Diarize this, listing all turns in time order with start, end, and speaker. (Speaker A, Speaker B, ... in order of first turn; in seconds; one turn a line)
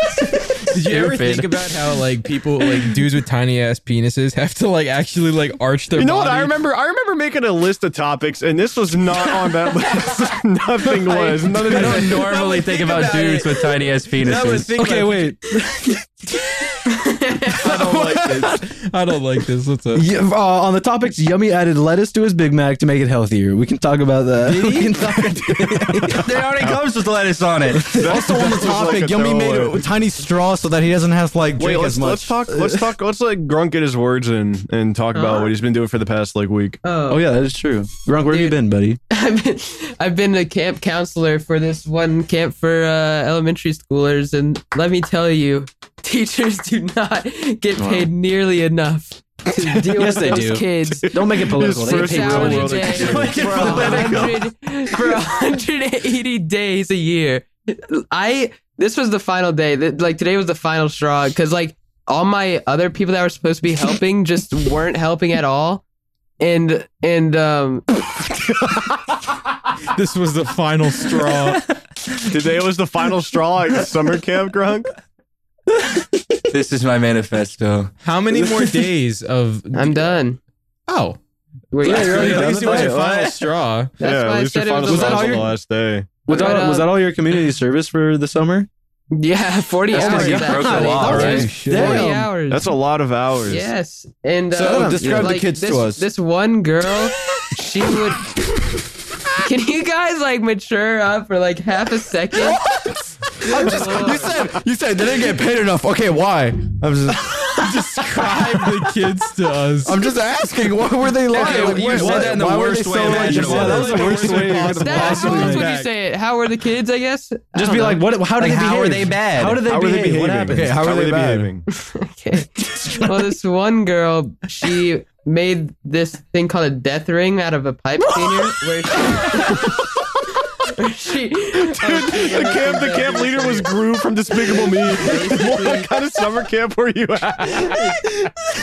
Speaker A: 0.7-6.6
Speaker B: 0.7-1.5
Speaker C: 6.0-12.2
Speaker A: 11.5-15.4
Speaker B: 11.6-14.7
Speaker D: 14.8-16.0
Speaker E: 16.9-17.9
Speaker A: 17.5-20.1
Speaker D: 17.8-18.6
Speaker D: 19.9-26.3
Speaker A: 24.4-25.0
Speaker B: 26.1-28.1
Speaker C: 26.5-26.8
Speaker D: 27.9-28.7
Speaker C: 27.9-29.9
Speaker F: 28.0-32.6
Speaker C: 31.6-36.8
Speaker E: 35.1-35.5
Speaker E: 36.8-37.3
Speaker D: 37.1-39.0
Speaker E: 38.3-38.6
Speaker E: 39.1-65.8
Speaker D: 47.8-48.1
Speaker D: 49.6-54.2
Speaker C: 51.2-54.2
Speaker B: 52.9-54.5
Speaker E: 66.4-67.9
Speaker A: 69.9-71.6
Speaker C: 72.3-74.9
Speaker B: 76.5-77.9
Speaker A: 78.0-80.2
Speaker E: 79.7-80.4
Speaker A: 80.9-81.2
Speaker E: 81.7-82.6
Speaker D: 81.8-83.1
Speaker A: 81.8-83.9
Speaker C: 82.0-83.4
Speaker E: 84.0-85.5
Speaker C: 84.0-86.3
Speaker D: 84.8-85.5
Speaker E: 86.3-86.9
Speaker D: 86.3-88.7
Speaker E: 89.1-92.8
Speaker B: 89.9-91.6
Speaker D: 90.0-92.3
Speaker F: 90.2-92.2
Speaker C: 92.5-93.7
Speaker E: 93.5-98.4
Speaker D: 94.5-95.8
Speaker F: 94.6-96.0
Speaker E: 99.4-102.7
Speaker F: 102.8-108.6
Speaker E: 103.4-104.6
Speaker A: 107.4-110.0
Speaker F: 109.8-114.7
Speaker B: 111.3-114.0
Speaker A: 111.4-112.4
Speaker D: 111.5-115.7
Speaker A: 112.9-115.9
Speaker E: 114.1-118.1
Speaker D: 117.5-120.8
Speaker B: 118.4-119.7
Speaker C: 119.7-121.7
Speaker F: 120.5-121.5
Speaker E: 121.7-133.8
Speaker C: 131.7-138.0
Speaker E: 134.3-135.9
Speaker E: 137.6-138.1